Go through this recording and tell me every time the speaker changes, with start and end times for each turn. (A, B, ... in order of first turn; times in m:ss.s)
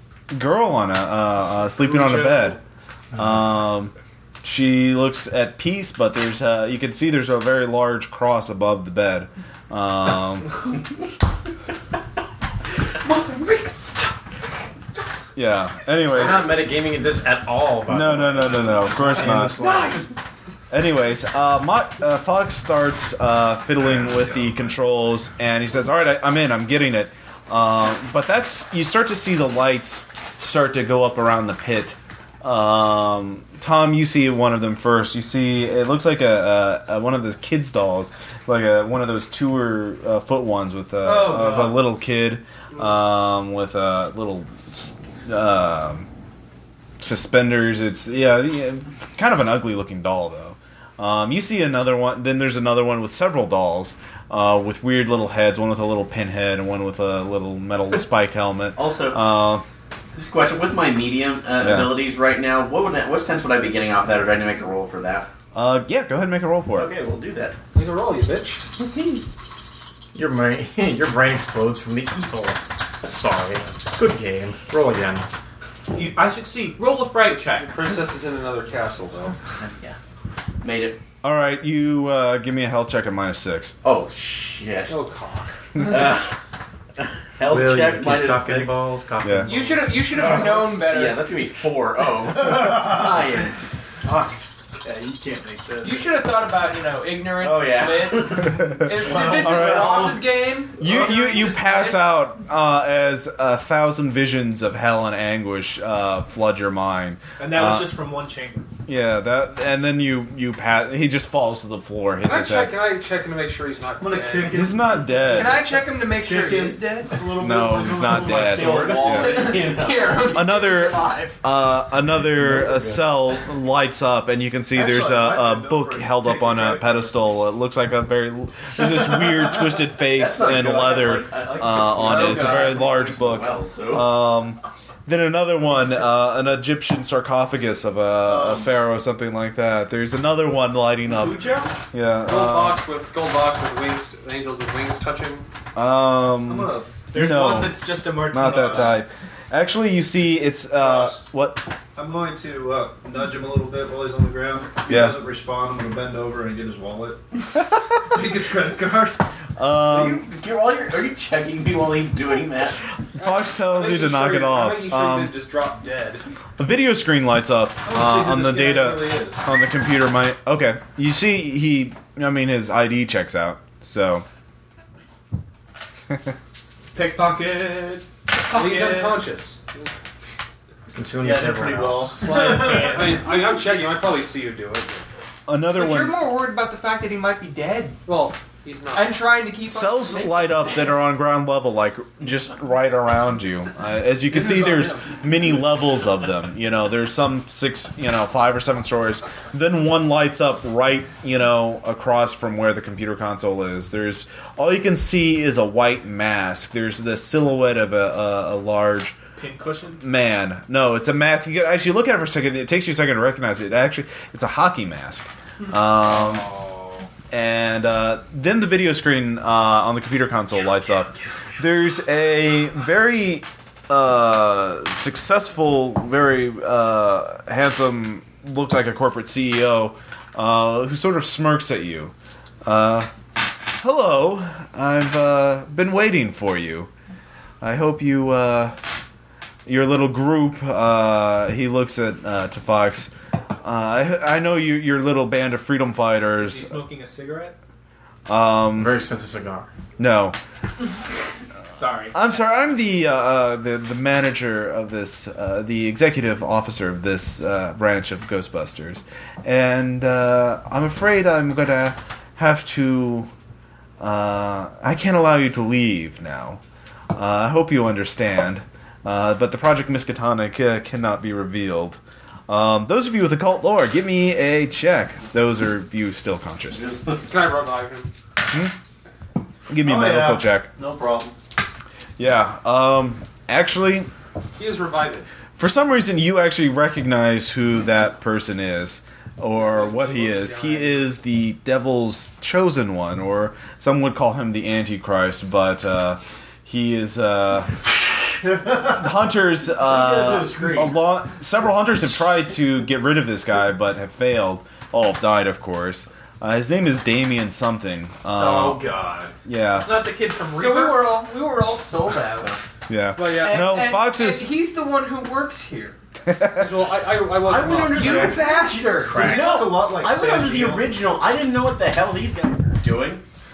0:00.3-0:02.6 A
0:01.8-0:02.5 B
0:03.1-0:10.5 A
0:13.0-0:15.0 C
0:15.3-0:16.6 A
0:16.0-0:20.1 D
0:17.9-0:19.7 A
0:19.6-0:20.0 C
0:20.7-0:46.1 A
0:41.0-0:41.9 C
0:47.0-0:59.6 A
0:58.7-0:59.2 E
1:00.1-1:05.3 E
1:01.6-1:01.9 A
1:05.5-1:06.9 A
1:06.7-1:07.6 E
1:07.7-1:08.6 F
1:08.9-1:09.2 E
1:10.1-1:15.3 D
1:15.9-1:17.8 B
1:17.6-1:19.4 F
1:19.6-1:20.0 E
1:20.6-1:21.0 E
1:21.2-1:23.7 A
1:23.8-1:24.9 E
1:24.9-1:25.5 F
1:25.8-1:26.4 E
1:27.0-1:28.9 E
1:27.4-1:30.1 D
1:29.2-1:29.5 A
1:29.4-1:31.2 C
1:30.1-1:33.6 E
1:34.0-1:34.5 D
1:35.8-1:42.1 C
1:37.3-1:38.6 E
1:38.6-1:48.0 A
1:39.3-1:39.7 B
1:47.4-1:48.7 B
1:48.9-1:52.7 A
1:52.2-1:54.7 F
1:54.0-1:59.4 G
1:54.4-1:55.6 A
1:55.3-1:57.1 C
1:57.4-1:59.5 A
1:58.1-2:01.4 E
1:59.3-2:01.0 C
2:00.2-2:22.8 A
2:02.3-2:03.1 D
2:04.7-2:06.9 G
2:10.0-2:14.2 E
2:12.0-2:12.8 F
2:18.2-2:18.7 G
2:21.1-2:21.7 B
2:22.2-2:25.4 F
2:25.7-2:31.6 A
2:26.4-2:27.0 G
2:27.1-2:29.2 B
2:30.7-2:31.2 G
2:31.9-2:37.2 G
2:34.9-2:35.2 A
2:38.0-2:39.2 G
2:39.6-2:40.3 A
2:39.8-2:42.8 E
2:43.1-2:45.3 A
2:43.2-2:46.2 F
2:46.6-2:54.2 A
2:47.8-2:49.4 G
2:56.9-2:59.2 B
2:58.5-2:59.9 F
3:00.9-3:02.5 D
3:01.2-3:03.2 G
3:02.2-3:03.1 B
3:02.4-3:05.0 F
3:05.5-3:06.2 A
3:05.7-3:08.0 C
3:08.0-3:09.3 F
3:08.9-3:11.0 C
3:09.6-3:29.2 A
3:14.4-3:15.2 B
3:29.4-3:30.0 B
3:30.0-3:36.5 A
3:36.0-3:37.1 B
3:37.3-3:52.1 A
3:52.6-3:53.1 A
3:53.7-3:56.9 A
3:57.6-3:58.8 A
3:59.6-4:03.1 A
4:03.6-4:06.8 A
4:06.3-4:07.6 B
4:08.3-4:09.0 A
4:08.7-4:09.7 D
4:10.0-4:10.4 A
4:11.7-4:12.2 B
4:12.1-4:23.3 A
4:24.0-4:26.6 A
4:27.1-4:36.9 A
4:36.7-4:37.2 E
4:37.2-4:38.1 F
4:38.5-4:38.7 A
4:39.7-4:40.7 A
4:39.8-4:41.4 G
4:42.2-4:44.1 A
4:44.6-4:45.3 F
4:45.6-4:58.1 A
4:49.5-4:51.2 F
4:58.4-4:59.1 G
4:58.7-5:08.8 A
5:00.3-5:00.9 G
5:08.3-5:11.2 B
5:09.4-5:10.0 A
5:10.5-5:12.5 C
5:12.9-5:14.5 A
5:13.2-5:13.8 F
5:13.2-5:16.0 C
5:16.3-5:16.7 A
5:16.5-5:18.3 F
5:17.4-5:23.2 E
5:18.0-5:18.4 A
5:19.1-5:19.6 D
5:19.1-5:20.9 G